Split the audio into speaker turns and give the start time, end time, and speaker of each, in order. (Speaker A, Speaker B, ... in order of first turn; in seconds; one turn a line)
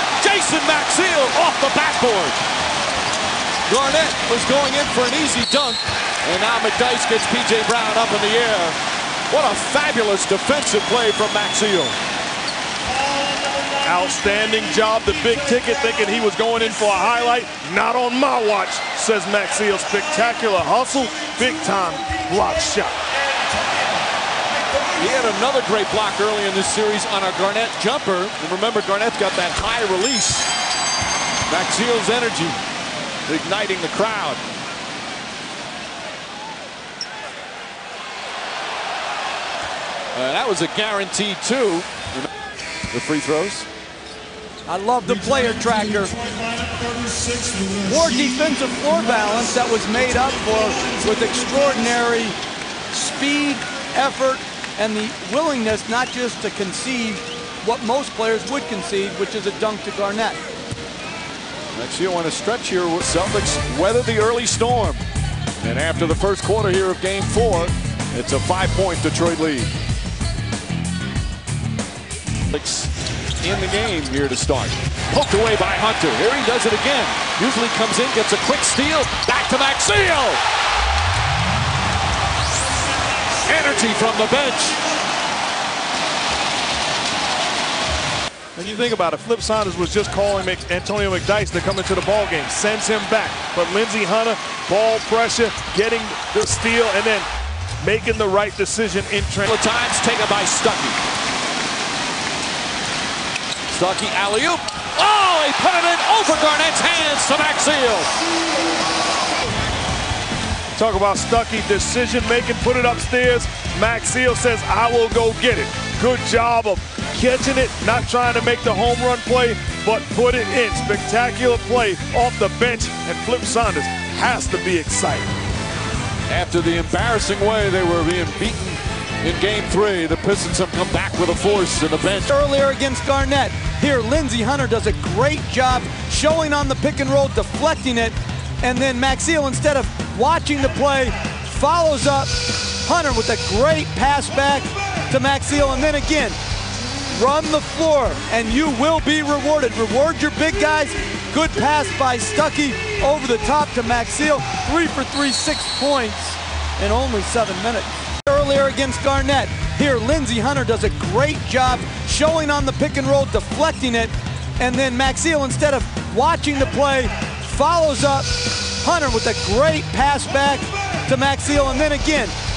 Speaker A: 0.2-2.4
Speaker A: 3.7-8.8
Speaker A: 9.3-12.0
Speaker B: 13.8-23.0
Speaker A: 24.9-30.5
Speaker A: 31.5-32.6
Speaker A: 33.3-34.4
Speaker A: 40.1-42.3
Speaker A: 42.9-43.7
Speaker C: 44.7-46.2
Speaker C: 47.8-52.4
Speaker C: 52.9-60.4
Speaker A: 61.7-65.0
Speaker A: 65.6-69.7
Speaker A: 72.5-80.4
Speaker A: 83.5-84.8
Speaker B: 88.5-97.3
Speaker B: 97.8-99.5
Speaker A: 99.4-101.0
Speaker A: 103.7-108.1
Speaker B: 110.7-125.3
Speaker A: 126.3-132.3
Speaker C: 132.3-146.4
Speaker C: 147.1-172.3